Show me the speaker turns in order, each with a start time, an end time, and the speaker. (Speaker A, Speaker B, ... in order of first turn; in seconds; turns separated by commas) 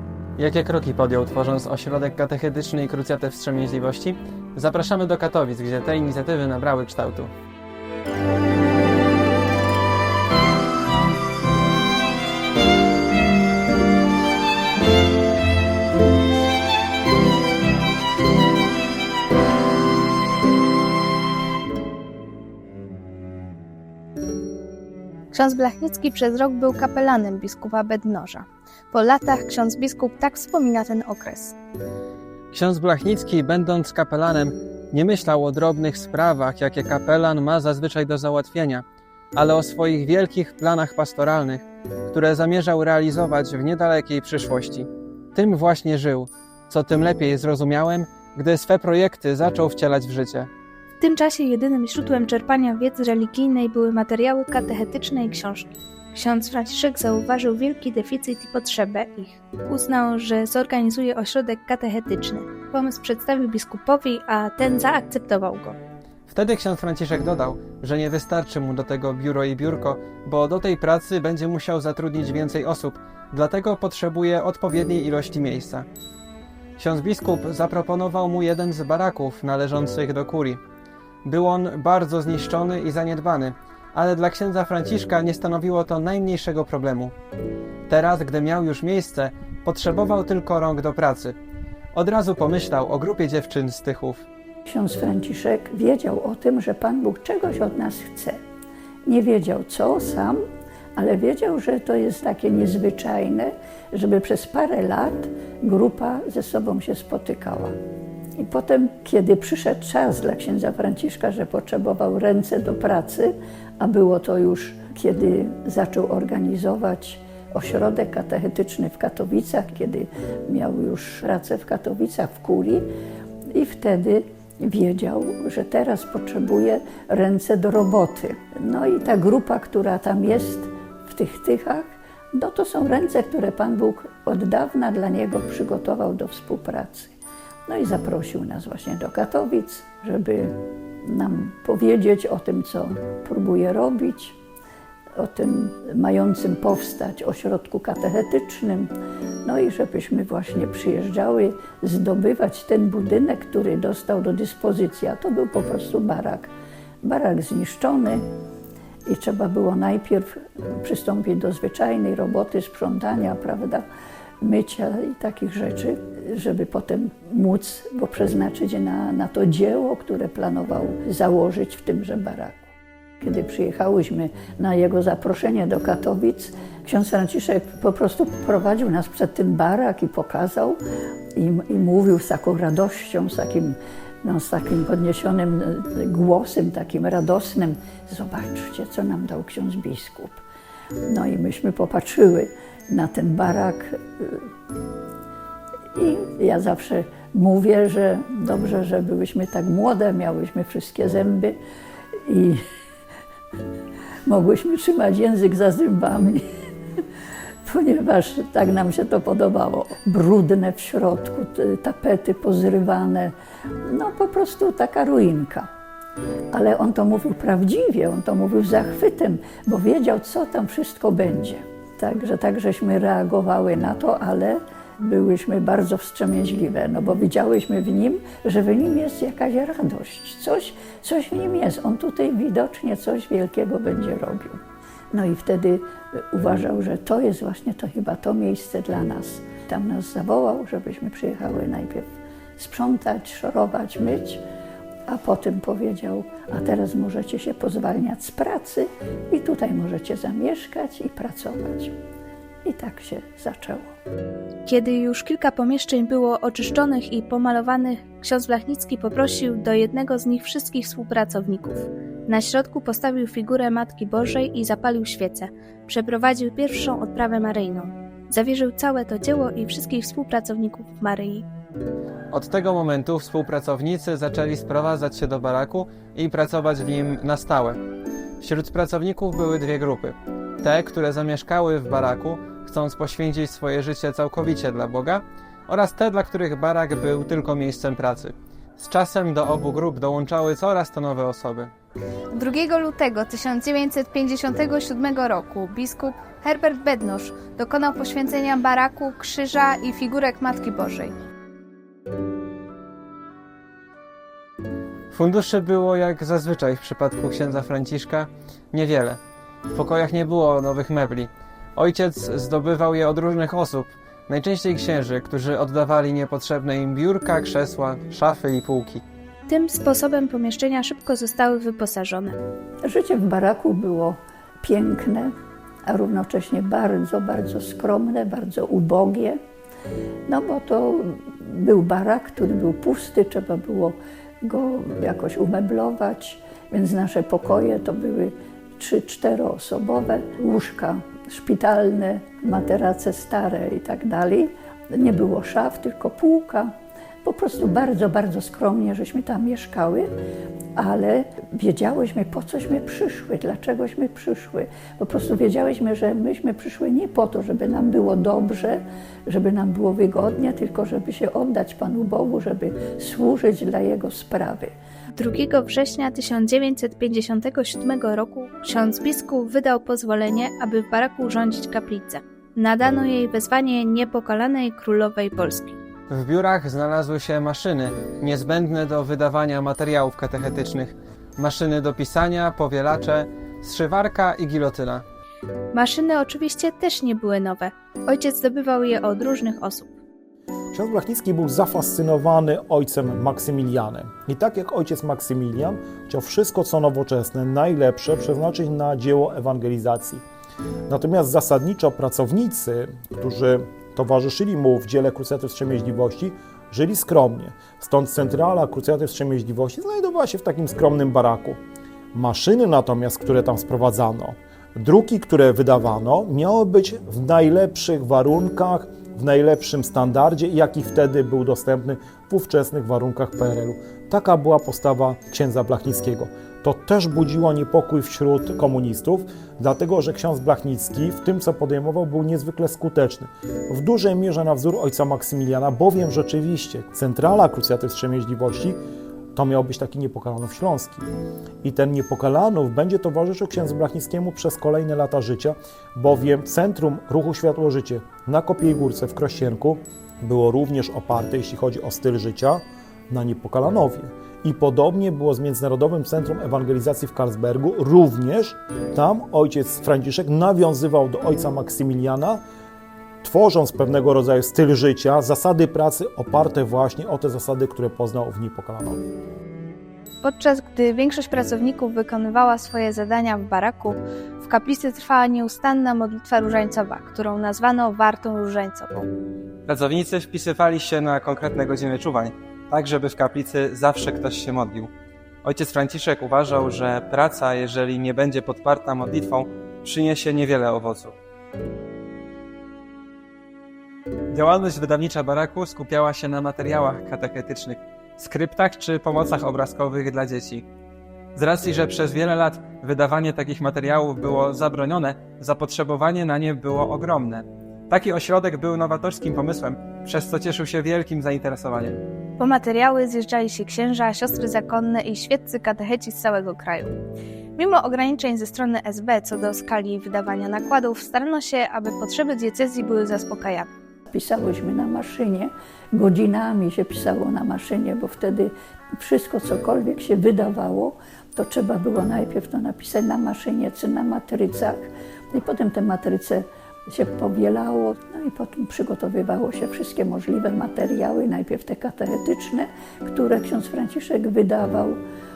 Speaker A: 0.4-7.3, Speaker B: 25.3-31.6, Speaker A: 32.5-38.8, Speaker A: 39.3-50.5, Speaker B: 51.0-65.8, Speaker A: 66.3-75.8, Speaker A: 76.8-80.6, Speaker A: 81.2-87.1, Speaker A: 87.9-91.3, Speaker A: 91.9-94.2, Speaker C: 94.7-98.4, Speaker C: 99.0-100.4, Speaker C: 101.0-107.7, Speaker C: 108.4-122.9, Speaker C: 123.5-137.1, Speaker C: 137.7-144.4, Speaker C: 145.2-148.9, Speaker C: 149.4-156.5, Speaker C: 157.0-158.2, Speaker C: 159.1-163.9, Speaker C: 164.4-180.8, Speaker C: 181.3-190.4, Speaker C: 191.1-194.5, Speaker C: 195.9-201.6, Speaker C: 202.1-202.6, Speaker C: 204.2-206.4, Speaker C: 207.6-213.3, Speaker C: 213.8-215.7, Speaker C: 216.5-234.6, Speaker C: 235.1-244.4, Speaker C: 245.1-251.9, Speaker C: 252.6-253.9, Speaker B: 254.6-271.5, Speaker A: 272.3-277.8, Speaker A: 278.4-291.7, Speaker B: 292.3-301.1, Speaker A: 305.1-309.2, Speaker A: 309.7-319.0, Speaker B: 319.5-322.3, Speaker C: 322.8-325.3, Speaker C: 325.9-329.4, Speaker C: 330.3-346.7, Speaker C: 347.2-350.1, Speaker C: 350.8-364.7, Speaker B: 365.1-375.8, Speaker A: 376.1-385.0, Speaker B: 385.7-389.9, Speaker D: 390.7-400.2, Speaker D: 400.9-411.6, Speaker D: 412.1-438.8, Speaker D: 439.3-441.0, Speaker D: 441.6-462.4, Speaker D: 463.2-469.0, Speaker B: 470.2-479.1, Speaker A: 479.6-484.9, Speaker A: 485.4-491.1, Speaker A: 494.3-500.6, Speaker A: 501.4-512.0, Speaker B: 512.4-517.0, Speaker B: 517.6-523.7, Speaker C: 524.1-545.0